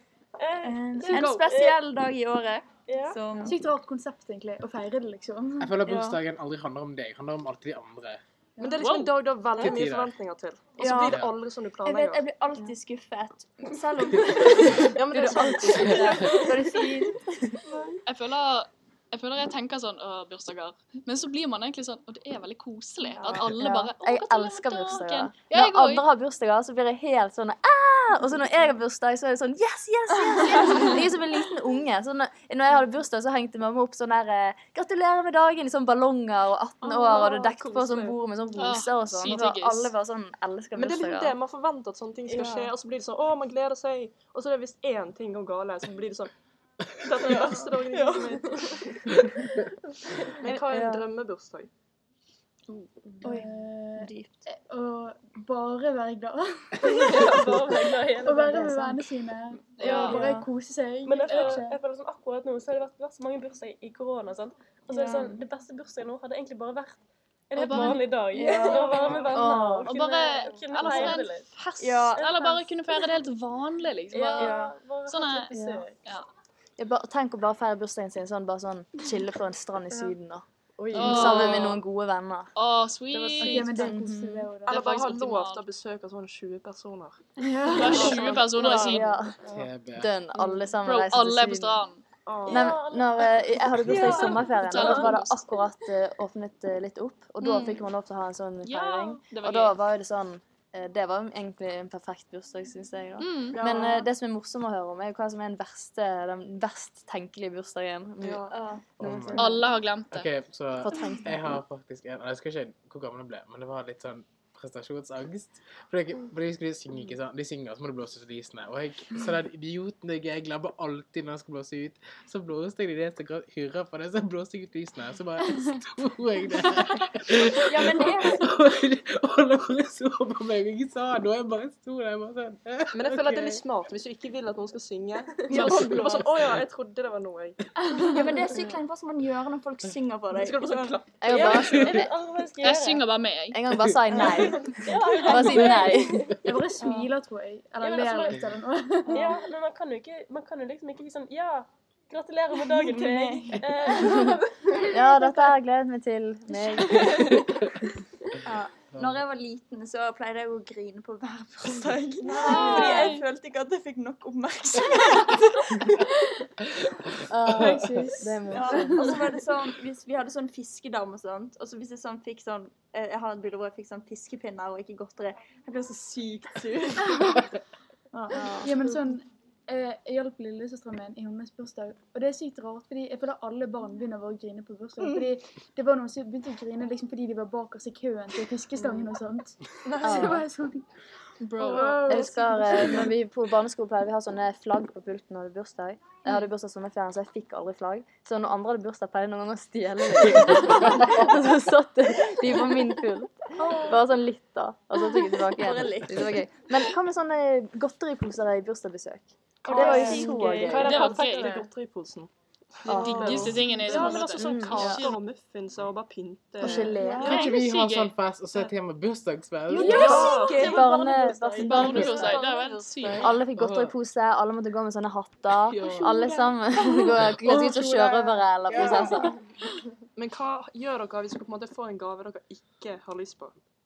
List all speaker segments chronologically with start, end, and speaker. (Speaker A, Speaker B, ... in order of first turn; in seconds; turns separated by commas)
Speaker A: 0.4-1.8, Speaker B: 0.6-3.6, Speaker C: 1.0-1.5, Speaker A: 2.9-3.2, Speaker D: 3.4-5.8, Speaker E: 5.6-8.2, Speaker B: 5.9-6.2, Speaker C: 8.6-12.3, Speaker F: 8.8-9.6, Speaker E: 9.6-10.2, Speaker B: 10.8-11.2, Speaker E: 11.1-11.3, Speaker B: 11.8-17.5, Speaker C: 14.9-16.9, Speaker C: 17.7-18.0, Speaker F: 18.1-26.1, Speaker C: 23.1-23.5, Speaker G: 23.4-41.4, Speaker C: 36.8-38.2, Speaker F: 38.6-39.9, Speaker C: 40.8-46.3, Speaker B: 42.3-42.7, Speaker C: 47.0-49.1, Speaker B: 47.3-48.4, Speaker C: 50.3-51.7, Speaker G: 50.4-51.1, Speaker B: 52.7-54.5, Speaker D: 53.2-57.5, Speaker A: 56.8-58.8, Speaker D: 58.2-61.8, Speaker G: 58.5-59.0, Speaker F: 59.8-60.1, Speaker A: 59.8-60.4, Speaker A: 61.0-67.0, Speaker F: 61.3-61.6, Speaker B: 64.9-65.4, Speaker A: 67.5-71.5, Speaker F: 67.6-68.1, Speaker B: 68.3-69.4, Speaker G: 68.4-68.8, Speaker G: 69.3-69.9, Speaker F: 69.8-74.5, Speaker B: 70.9-71.1, Speaker B: 71.8-72.3, Speaker A: 72.2-72.9, Speaker A: 74.1-76.0, Speaker C: 74.4-74.7, Speaker F: 75.1-75.5, Speaker G: 75.5-75.9, Speaker G: 76.8-82.5, Speaker A: 80.8-81.3, Speaker F: 81.0-81.8, Speaker C: 81.2-81.6, Speaker F: 82.6-83.8, Speaker C: 83.1-84.0, Speaker D: 83.4-84.8, Speaker G: 83.8-84.4, Speaker F: 84.6-85.7, Speaker C: 84.7-89.7, Speaker D: 87.4-88.4, Speaker F: 87.8-89.2, Speaker G: 88.6-89.4, Speaker E: 89.5-90.2, Speaker G: 90.0-91.8, Speaker C: 90.4-90.7, Speaker F: 90.8-92.0, Speaker C: 92.3-92.7, Speaker A: 92.4-95.0, Speaker G: 92.5-109.6, Speaker C: 93.9-95.2, Speaker E: 93.9-94.2, Speaker F: 94.7-95.4, Speaker F: 97.4-97.8, Speaker F: 98.6-99.8, Speaker F: 103.2-103.6, Speaker C: 103.5-104.1, Speaker C: 108.2-108.5, Speaker B: 108.5-108.8, Speaker E: 109.0-109.5, Speaker C: 109.1-109.4, Speaker F: 109.4-110.3, Speaker E: 110.1-133.6, Speaker G: 110.8-111.4, Speaker B: 127.5-128.5, Speaker C: 132.9-137.6, Speaker B: 135.5-136.2, Speaker F: 135.5-136.2, Speaker B: 138.0-141.6, Speaker C: 140.3-141.2, Speaker G: 141.2-142.1, Speaker A: 141.3-143.1, Speaker E: 141.6-141.9, Speaker F: 142.6-143.8, Speaker G: 143.5-146.3, Speaker C: 144.2-144.6, Speaker A: 144.5-147.1, Speaker D: 146.4-149.3, Speaker A: 147.8-148.4, Speaker A: 149.1-154.8, Speaker B: 152.6-153.7, Speaker G: 154.2-157.6, Speaker B: 158.4-165.8, Speaker E: 158.9-159.2, Speaker F: 162.4-163.2, Speaker G: 167.3-169.2, Speaker D: 167.5-169.2, Speaker B: 168.5-177.4, Speaker D: 178.1-190.8, Speaker G: 178.3-178.7, Speaker C: 188.8-189.1, Speaker C: 189.9-190.4, Speaker G: 190.0-190.4, Speaker F: 191.4-191.9, Speaker C: 191.6-193.1, Speaker D: 191.6-193.0, Speaker G: 192.1-211.1, Speaker B: 203.6-204.1, Speaker B: 205.4-206.4, Speaker B: 209.7-211.5, Speaker C: 209.7-212.3, Speaker F: 210.8-211.7, Speaker C: 212.8-217.1, Speaker G: 212.9-215.1, Speaker F: 212.9-215.2, Speaker G: 216.6-217.4, Speaker B: 216.9-217.4, Speaker E: 217.1-220.0, Speaker F: 217.3-218.2, Speaker B: 219.7-222.4, Speaker D: 219.7-220.3, Speaker C: 219.8-223.4, Speaker G: 219.9-222.4, Speaker F: 221.6-223.3, Speaker G: 223.1-229.4, Speaker E: 223.5-223.9, Speaker C: 225.7-226.3, Speaker C: 227.5-228.2, Speaker C: 228.7-229.1, Speaker C: 230.2-233.6